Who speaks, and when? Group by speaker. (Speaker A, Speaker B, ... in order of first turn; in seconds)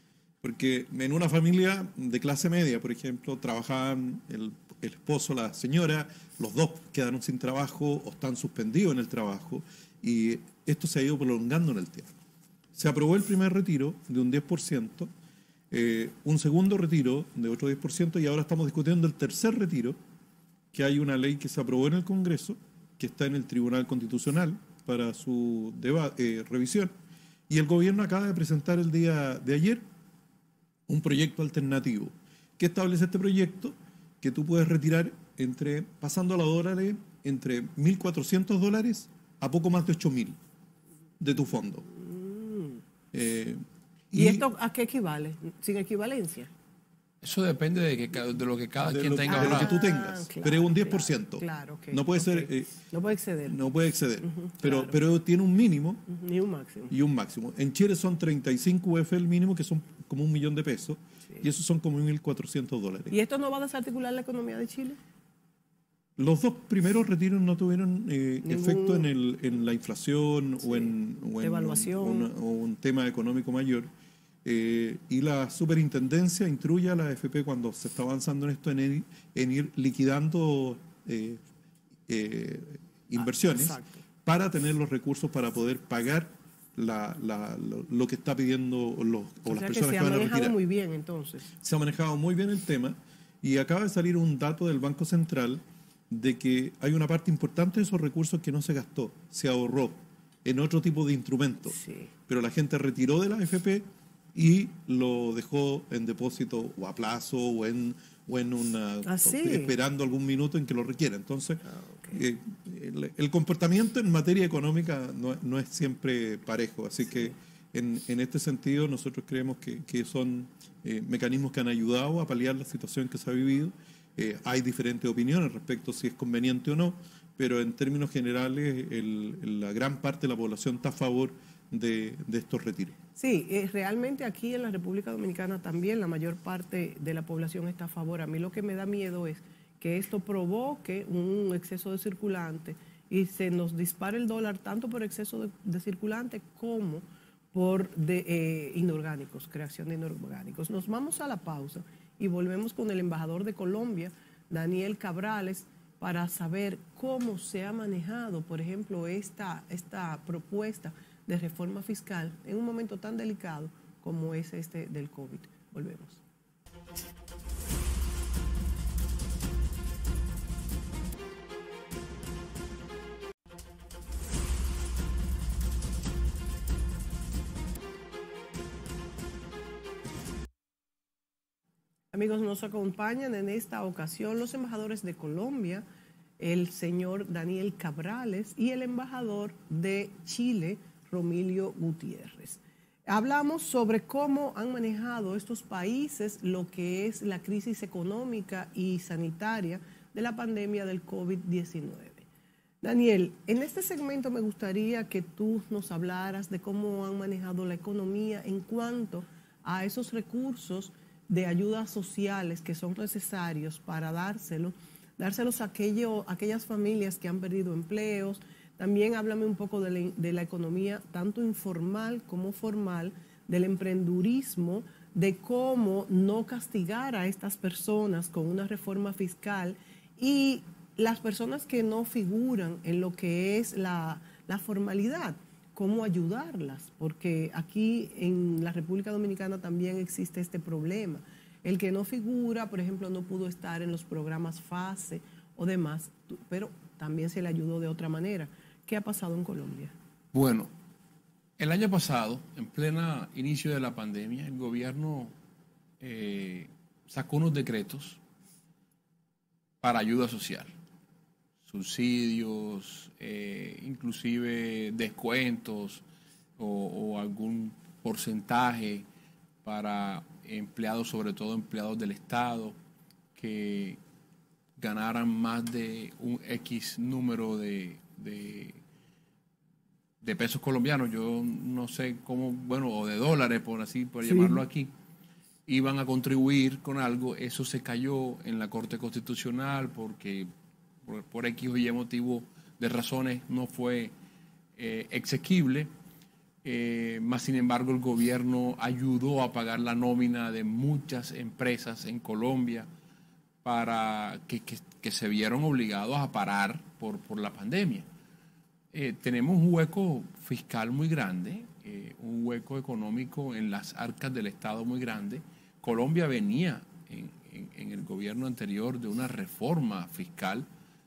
Speaker A: 0.4-12.1, 12.8-15.1, 15.7-19.9, 20.7-26.9, 27.5-29.8, 30.9-40.4, 41.2-41.8, 43.1-44.5, 48.8-52.7, 53.5-56.0, 56.9-63.1, 66.2-73.9, 74.4-81.4, 82.1-90.5, 91.6-132.9
Speaker B: 41.9-42.8, 44.1-46.5, 49.3-53.6, 54.2-55.0, 56.1-56.9, 63.1-65.0, 68.4-69.1, 70.6-72.3, 83.2-84.0, 89.5-91.5, 101.7-102.1, 109.0-109.7, 111.7-112.2, 133.2-166.2, 182.1-185.8, 186.4-202.2, 202.8-249.9, 284.2-284.6
Speaker C: 47.2-49.8, 250.3-250.7, 251.6-255.3, 256.0-258.2, 259.8-260.7, 261.6-266.0, 266.6-269.0, 269.6-272.7, 273.4-274.0, 274.8-278.8, 280.2-284.9, 285.7-290.5, 291.0-294.1, 294.8-295.9, 296.6-302.9, 303.6-308.1, 308.9-320.7